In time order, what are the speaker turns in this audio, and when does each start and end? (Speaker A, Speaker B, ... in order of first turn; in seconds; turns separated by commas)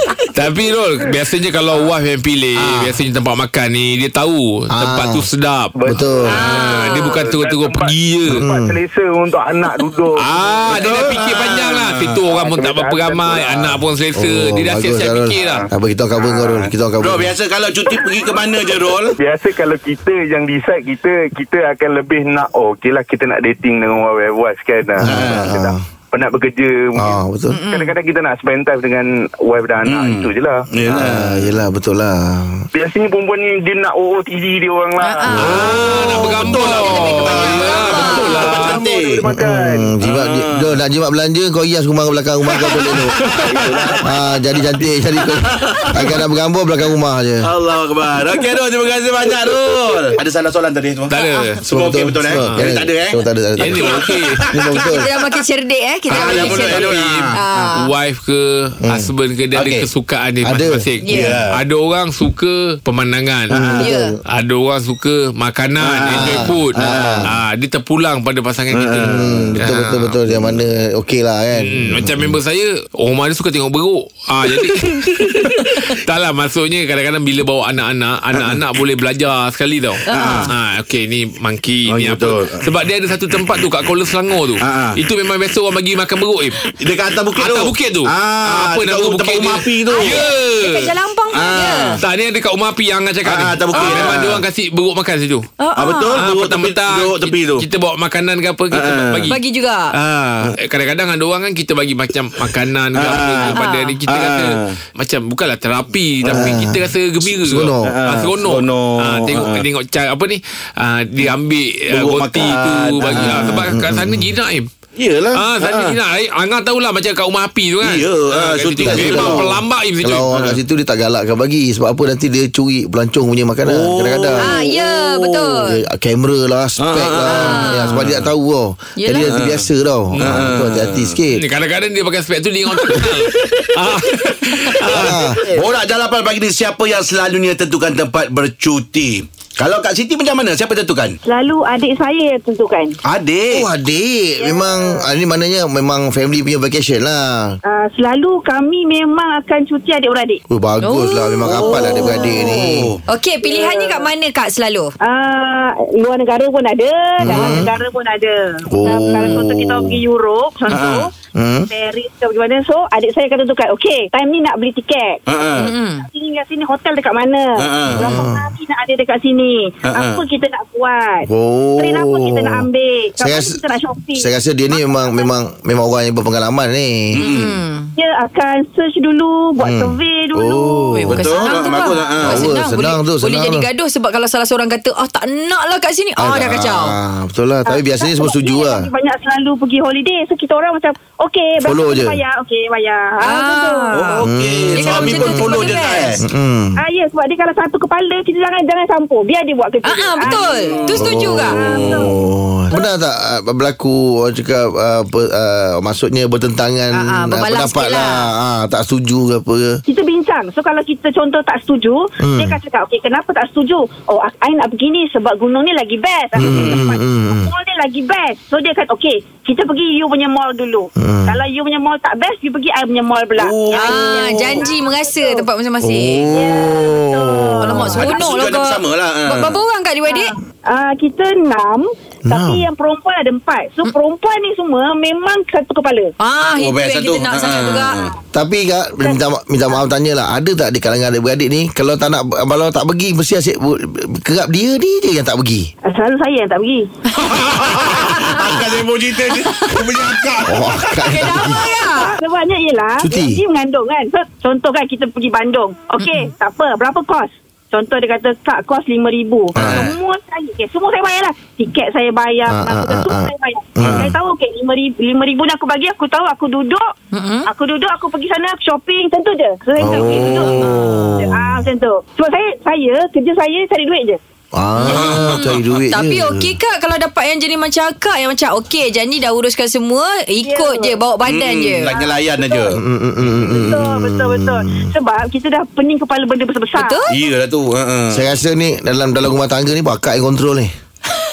Speaker A: 0.3-5.8, Speaker B: 2.6-2.9, Speaker B: 4.8-5.3, Speaker C: 5.8-10.2, Speaker B: 5.9-6.4, Speaker D: 6.3-7.2, Speaker A: 6.3-8.5, Speaker B: 8.3-8.8, Speaker A: 10.2-15.7, Speaker E: 10.7-12.2, Speaker C: 10.8-11.2, Speaker C: 12.3-13.8, Speaker B: 14.2-17.4, Speaker C: 15.4-16.7, Speaker E: 17.0-19.2, Speaker C: 18.0-18.3, Speaker C: 19.2-30.7, Speaker B: 25.0-25.8, Speaker E: 25.1-25.5, Speaker B: 26.9-27.6, Speaker D: 27.5-27.9, Speaker E: 29.9-31.5, Speaker B: 30.9-32.7, Speaker C: 32.7-40.0, Speaker D: 35.0-36.0, Speaker A: 35.3-38.8, Speaker E: 35.5-39.3, Speaker D: 37.7-38.4, Speaker B: 39.3-43.2, Speaker E: 40.0-40.8, Speaker A: 43.2-43.5, Speaker C: 43.3-44.1, Speaker B: 44.0-47.5, Speaker E: 45.4-46.2, Speaker E: 47.4-55.0, Speaker A: 51.1-51.6, Speaker D: 51.2-51.5, Speaker B: 51.7-55.1, Speaker A: 52.4-52.7, Speaker A: 53.6-54.4, Speaker D: 54.7-57.9, Speaker E: 56.1-57.7, Speaker A: 56.1-63.7, Speaker E: 59.5-59.9, Speaker B: 60.4-60.8, Speaker D: 61.0-61.4, Speaker E: 61.1-61.6, Speaker B: 63.5-64.2, Speaker E: 63.5-63.9, Speaker D: 63.8-64.1, Speaker A: 64.3-70.2, Speaker E: 65.8-67.3, Speaker B: 66.1-67.3, Speaker E: 68.7-69.7, Speaker B: 69.0-72.4, Speaker A: 71.6-86.6, Speaker E: 78.3-78.6, Speaker D: 80.1-80.5, Speaker E: 80.1-80.5, Speaker E: 81.9-82.7, Speaker E: 84.6-85.0, Speaker E: 86.8-90.3, Speaker A: 87.3-90.9, Speaker D: 89.9-92.0, Speaker E: 91.3-92.0, Speaker A: 92.0-95.5, Speaker E: 93.2-94.5, Speaker D: 93.7-94.1, Speaker D: 95.6-96.2, Speaker E: 95.8-97.7, Speaker A: 96.2-99.4, Speaker E: 98.7-99.3, Speaker D: 99.3-99.9, Speaker A: 99.9-114.7, Speaker E: 102.9-104.8, Speaker D: 103.4-104.0, Speaker E: 106.2-106.6, Speaker B: 106.2-108.0, Speaker E: 107.8-109.7, Speaker E: 111.9-113.7, Speaker B: 113.2-114.3, Speaker E: 115.0-116.0, Speaker A: 115.3-120.3, Speaker E: 117.8-119.6, Speaker B: 118.8-124.5, Speaker E: 120.3-120.6, Speaker E: 123.6-125.5, Speaker D: 124.4-125.8, Speaker B: 125.7-131.4, Speaker E: 126.8-128.3, Speaker D: 127.3-128.0, Speaker D: 129.0-129.3, Speaker E: 129.2-131.2, Speaker A: 131.3-135.2, Speaker E: 132.9-133.9, Speaker B: 134.9-135.4, Speaker E: 134.9-141.2, Speaker F: 141.2-143.0, Speaker E: 143.0-143.7, Speaker B: 143.5-147.6, Speaker F: 144.4-145.0, Speaker F: 147.6-150.4, Speaker B: 150.5-152.9, Speaker D: 150.8-154.9, Speaker E: 151.4-153.0, Speaker F: 152.1-152.6, Speaker F: 153.4-154.1, Speaker F: 155.0-161.1, Speaker B: 157.2-157.8, Speaker D: 157.3-157.6, Speaker B: 158.7-160.0, Speaker D: 158.9-159.3, Speaker E: 160.7-161.1, Speaker B: 161.3-161.7, Speaker F: 161.7-175.3, Speaker E: 165.3-165.7, Speaker D: 165.6-166.1, Speaker E: 167.6-168.2, Speaker B: 167.9-168.5, Speaker E: 169.8-170.2, Speaker B: 171.3-172.7, Speaker B: 173.2-173.6, Speaker B: 174.2-177.3, Speaker E: 177.2-177.6, Speaker D: 177.2-177.9, Speaker F: 178.0-181.0, Speaker B: 179.6-181.2, Speaker D: 180.9-186.9, Speaker E: 181.1-182.6, Speaker F: 181.6-181.9, Speaker B: 182.2-183.7, Speaker B: 186.2-188.9, Speaker F: 187.7-194.0, Speaker B: 191.6-192.2, Speaker D: 193.2-194.2, Speaker E: 193.9-196.2, Speaker B: 194.2-195.4, Speaker D: 194.8-196.2, Speaker F: 195.1-195.5, Speaker B: 196.2-196.8, Speaker F: 196.8-202.1, Speaker D: 199.8-201.7, Speaker E: 200.3-201.0, Speaker B: 201.0-209.8, Speaker E: 201.6-202.1, Speaker D: 206.9-208.3, Speaker F: 209.8-225.5, Speaker B: 212.2-212.6, Speaker B: 216.4-217.5, Speaker E: 216.4-216.9, Speaker B: 221.0-221.4, Speaker E: 223.4-224.7, Speaker D: 223.7-226.3, Speaker B: 225.8-228.1, Speaker F: 226.3-228.4, Speaker D: 227.6-230.3, Speaker E: 227.8-229.6, Speaker F: 230.1-236.1, Speaker B: 232.3-232.7, Speaker D: 236.2-238.1, Speaker E: 236.6-238.1, Speaker B: 238.3-245.7, Speaker F: 245.8-246.9, Speaker E: 247.2-251.1, Speaker D: 247.8-248.7, Speaker D: 249.5-249.9, Speaker B: 250.5-251.7, Speaker D: 251.1-252.2, Speaker F: 251.4-266.9, Speaker B: 253.0-253.4, Speaker D: 256.0-256.3, Speaker E: 259.6-259.9, Speaker B: 259.6-259.9, Speaker B: 262.5-264.1, Speaker E: 263.8-264.1, Speaker D: 267.1-267.5, Speaker F: 267.4-270.6, Speaker B: 269.8-271.7, Speaker D: 270.2-271.3, Speaker F: 271.2-274.2, Speaker B: 274.5-276.5, Speaker D: 274.8-282.0, Speaker E: 274.9-275.6, Speaker F: 280.4-281.0, Speaker E: 281.2-282.8, Speaker F: 282.0-282.7, Speaker B: 282.7-284.9, Speaker F: 283.4-287.2, Speaker D: 286.8-287.1, Speaker E: 287.1-288.2, Speaker B: 288.1-290.7